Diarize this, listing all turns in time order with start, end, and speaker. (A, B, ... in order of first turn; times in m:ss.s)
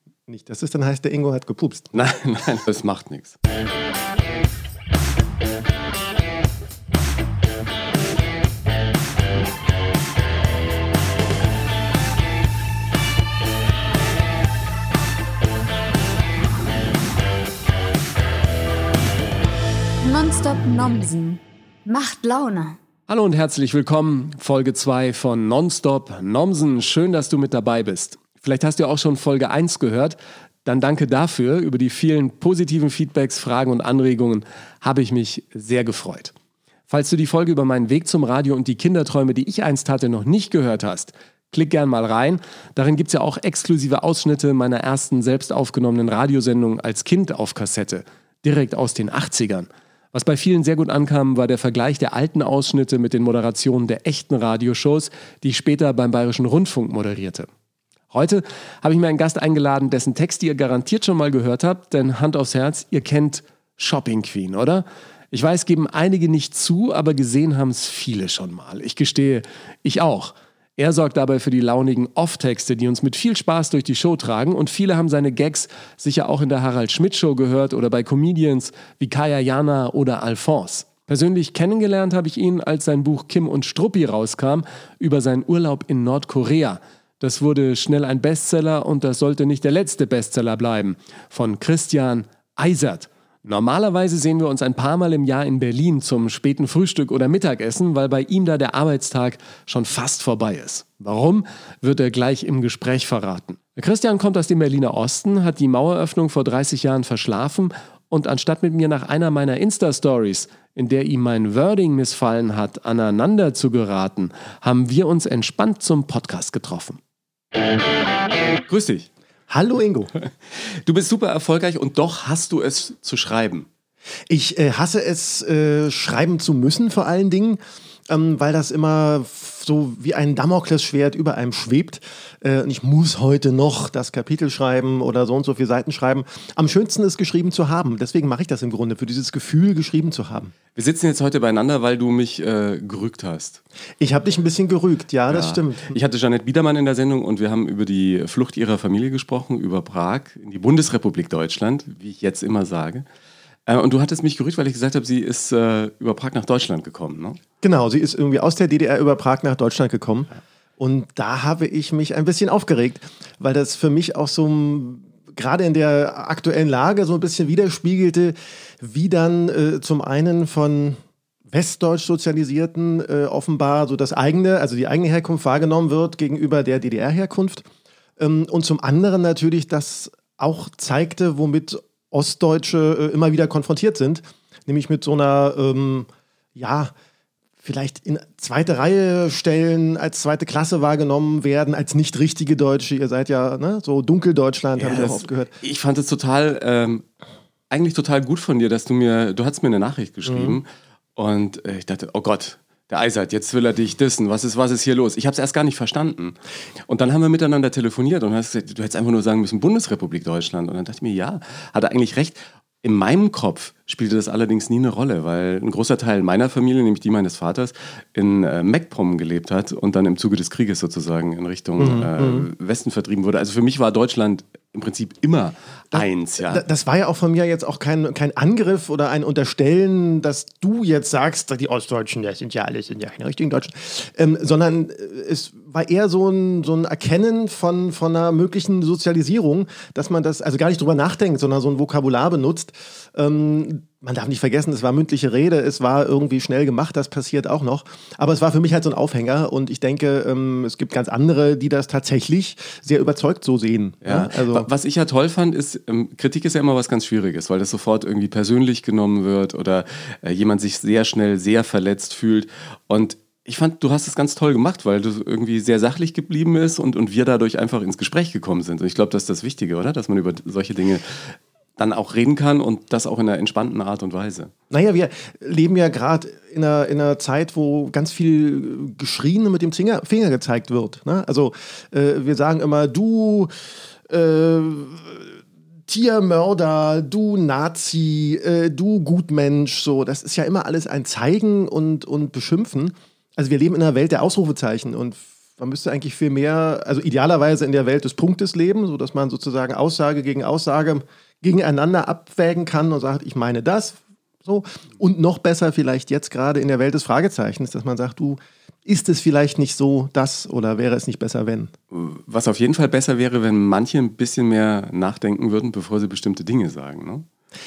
0:00.3-0:01.9 A
0:01.9-0:03.4 B
0:20.0-0:22.8 C
0:23.1-0:30.2 B
0:30.7-0:36.3 B
0:36.9-0:57.5 B
0:58.1-1:57.0 B
1:58.7-1:59.1 B
1:59.5-2:00.1 A
2:00.2-2:03.7 B
2:04.3-2:20.5 A
2:20.8-2:23.6 B
2:24.0-2:26.0 A
2:25.3-2:33.0 B
2:33.7-2:37.4 B
2:37.6-2:51.0 A
2:51.5-2:57.7 A
2:58.2-3:06.9 A
3:07.6-3:15.5 A
3:14.8-3:17.0 B
3:17.7-3:26.4 B
3:20.3-3:20.6 A
3:26.9-3:46.6 B
3:41.8-3:42.5 A
3:45.9-4:14.7 A
4:14.0-4:34.5 B
4:34.7-4:43.5 A
4:44.1-5:11.7 A
5:11.9-5:17.3 B